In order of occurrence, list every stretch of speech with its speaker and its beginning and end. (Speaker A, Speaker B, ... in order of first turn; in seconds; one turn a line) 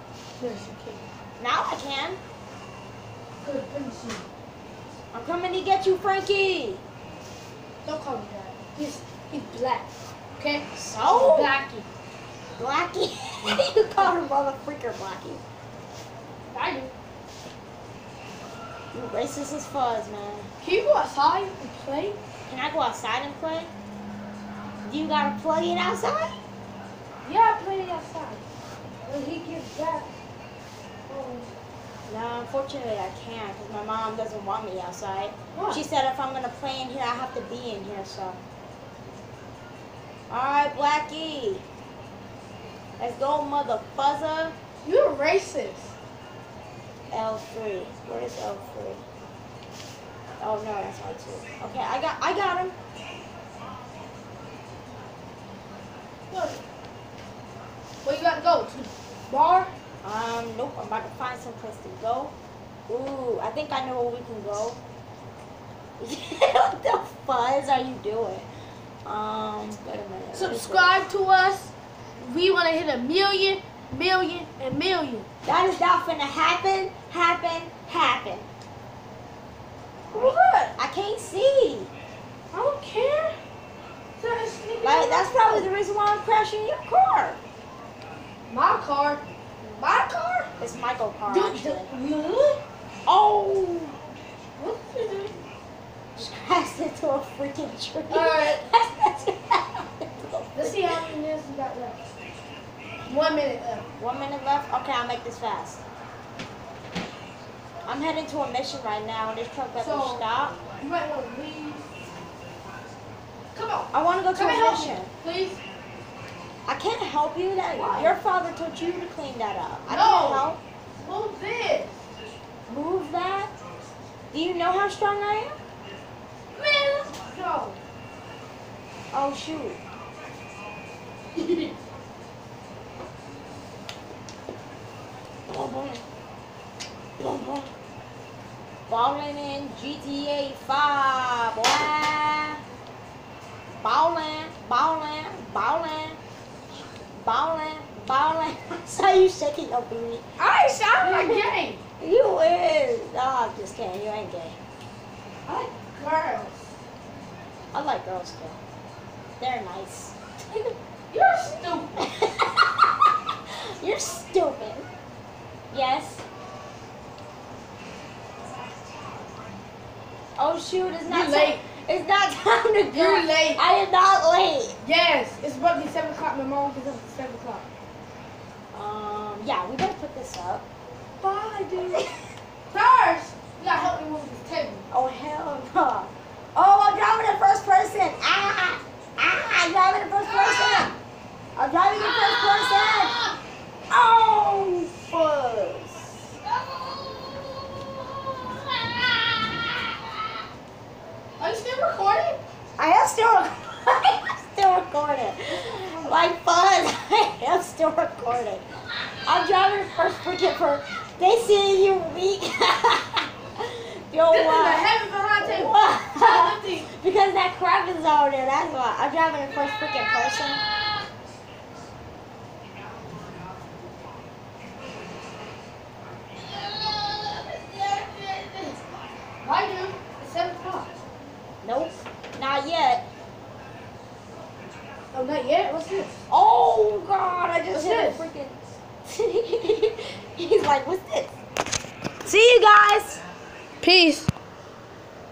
Speaker A: 0.4-1.0
Speaker B: 1.4-2.2
Speaker A: 3.4-4.3
Speaker B: 5.1-6.8
Speaker A: 7.8-11.8
Speaker B: 10.7-11.5
Speaker B: 12.6-15.4
Speaker A: 13.4-14.1
Speaker A: 16.5-16.9
Speaker B: 18.9-20.5
Speaker A: 20.6-22.2
Speaker B: 22.5-23.7
Speaker B: 24.8-26.4
Speaker A: 27.2-28.4
Speaker A: 29.0-30.1
Speaker A: 31.1-31.5
Speaker B: 32.1-38.4
Speaker A: 35.5-35.8
Speaker B: 40.3-41.6
Speaker B: 43.0-44.5
Speaker A: 44.8-45.9
Speaker B: 47.1-49.0
Speaker B: 50.4-52.7
Speaker A: 56.3-56.6
Speaker A: 58.0-59.7
Speaker B: 60.0-62.3
Speaker B: 62.9-64.8
Speaker B: 66.0-68.5
Speaker B: 69.0-71.0
Speaker A: 70.3-75.3
Speaker B: 75.4-78.5
Speaker A: 80.1-80.7
Speaker B: 80.1-81.9
Speaker A: 82.5-83.4
Speaker A: 84.2-85.7
Speaker B: 84.8-87.4
Speaker A: 88.5-89.2
Speaker A: 89.8-90.5
Speaker B: 90.6-91.9
Speaker A: 91.3-92.6
Speaker B: 93.1-94.0
Speaker A: 94.6-95.3
Speaker B: 96.2-101.1
Speaker A: 98.1-98.6
Speaker A: 100.5-102.0
Speaker A: 103.0-103.8
Speaker B: 104.0-105.8
Speaker B: 107.8-110.6
Speaker A: 109.8-111.8
Speaker A: 113.5-115.6
Speaker B: 113.9-115.1
Speaker B: 116.7-120.6
Speaker A: 117.7-118.1
Speaker A: 119.9-121.9
Speaker B: 122.7-123.6
Speaker B: 124.3-125.6
Speaker A: 126.5-127.8
Speaker B: 129.1-129.8
Speaker B: 135.5-136.0
Speaker B: 137.2-137.7
Speaker B: 138.9-142.6
Speaker B: 143.8-146.2
Speaker B: 147.1-150.2
Speaker A: 150.4-151.8
Speaker B: 151.0-151.4
Speaker B: 152.0-154.6
Speaker A: 155.4-156.7
Speaker B: 157.7-158.6
Speaker B: 159.4-160.7
Speaker A: 161.1-162.1
Speaker B: 162.0-163.1
Speaker B: 163.8-164.9
Speaker B: 165.7-166.2
Speaker B: 170.4-174.8
Speaker A: 171.1-171.6
Speaker A: 172.9-173.7
Speaker A: 174.8-177.6
Speaker B: 178.7-180.6
Speaker A: 181.2-182.0
Speaker A: 182.7-184.8
Speaker B: 184.9-190.9
Speaker B: 191.6-193.2
Speaker A: 192.5-193.3
Speaker B: 193.9-196.2
Speaker A: 201.4-202.4
Speaker B: 202.8-208.6
Speaker A: 205.7-206.3
Speaker B: 209.2-214.9
Speaker A: 214.3-216.9
Speaker B: 215.4-220.6
Speaker A: 226.5-228.8
Speaker A: 229.4-231.0
Speaker B: 231.6-233.0
Speaker A: 235.1-236.2
Speaker B: 236.3-241.3
Speaker A: 237.7-238.2
Speaker B: 242.2-243.2
Speaker A: 243.8-244.3